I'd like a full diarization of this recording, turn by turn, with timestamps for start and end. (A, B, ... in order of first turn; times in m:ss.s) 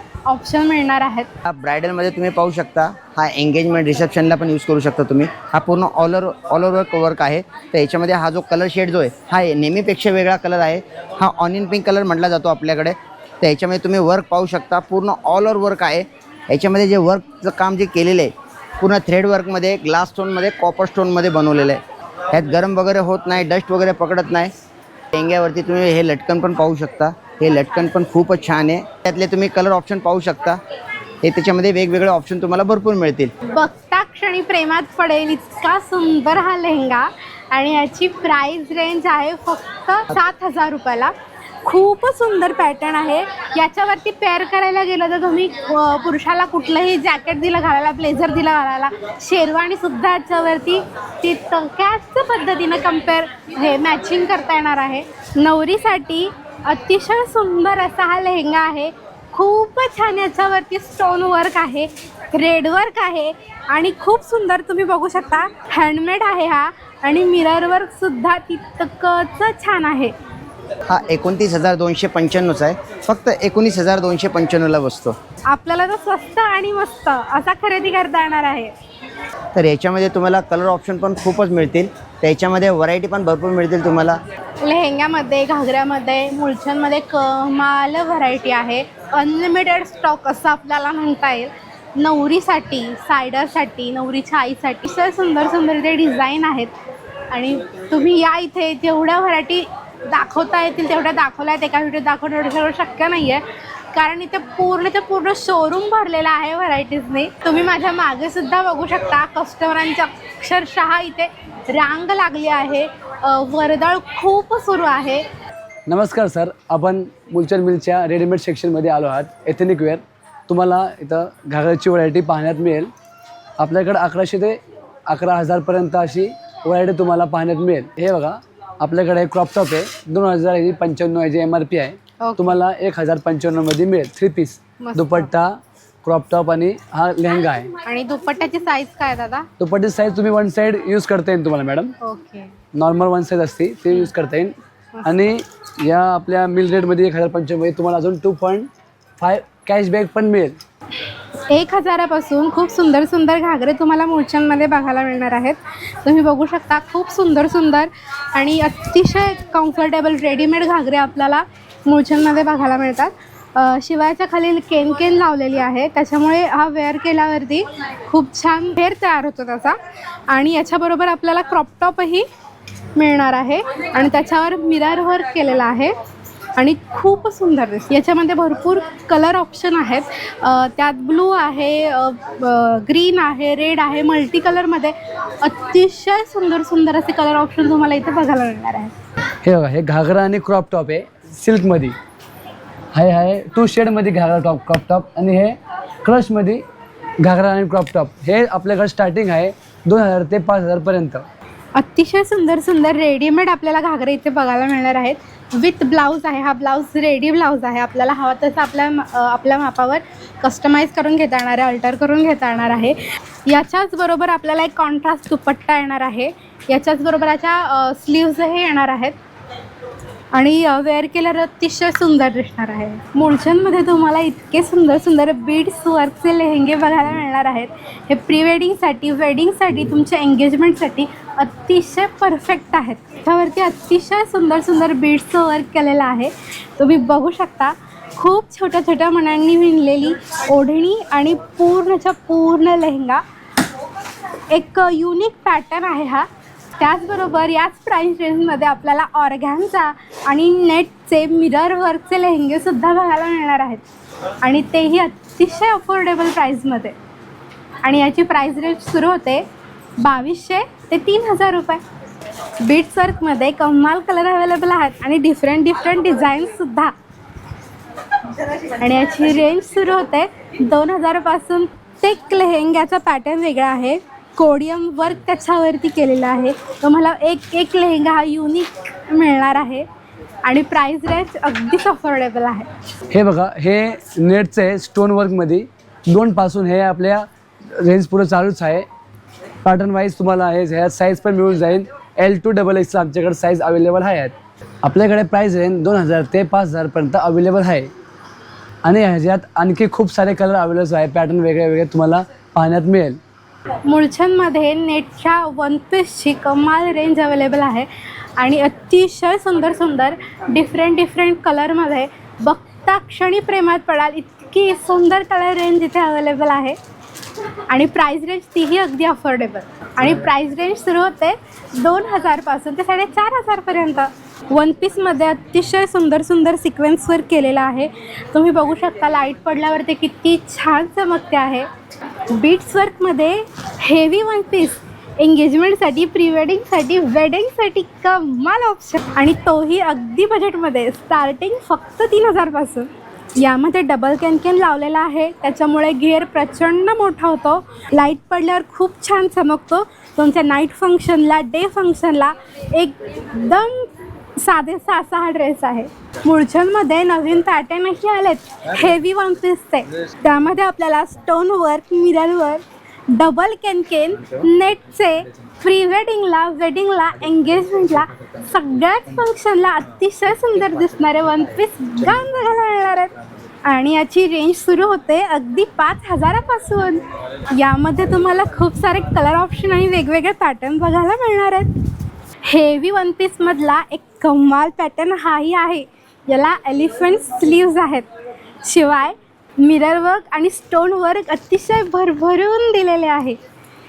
0:00.2-0:01.3 A
0:01.4-0:24.5 B
0:25.1-0:30.6 B
0:31.2-0:33.3 B
0:33.4-0:41.1 A
0:41.6-1:10.1 A
1:10.9-1:15.2 B
1:15.5-1:18.7 A
1:19.5-1:24.2 B
1:24.6-1:36.7 A
1:37.3-1:55.2 A
1:55.9-2:02.9 C
2:03.6-2:17.7 C
2:12.2-2:12.6 A
2:14.8-2:15.3 A
2:17.8-2:19.5 A
2:19.6-2:21.9 C
2:22.0-2:22.5 A
2:22.7-2:30.6 C
2:31.5-2:49.8 A
2:50.3-2:52.2 A
2:53.0-2:55.9 A
2:56.6-3:08.9 A
3:09.4-3:12.0 C
3:12.9-3:16.6 C
3:17.2-3:21.2 C
3:21.7-3:39.2 A
3:40.3-4:03.2 A
4:04.5-4:06.3 A
4:06.8-4:13.8 A
4:14.4-4:17.0 A
4:17.8-4:19.4 A
4:20.0-4:21.8 A
4:22.6-4:26.9 A
4:28.6-4:39.8 A
4:40.4-4:42.7 A
4:43.1-4:48.8 C
4:49.6-4:57.9 C
4:58.8-5:03.2 C
5:03.8-5:16.8 A
5:17.7-5:31.7 A
5:32.3-6:13.1 A
6:13.6-6:21.7 A
6:22.4-6:28.1 A
6:28.6-6:33.4 A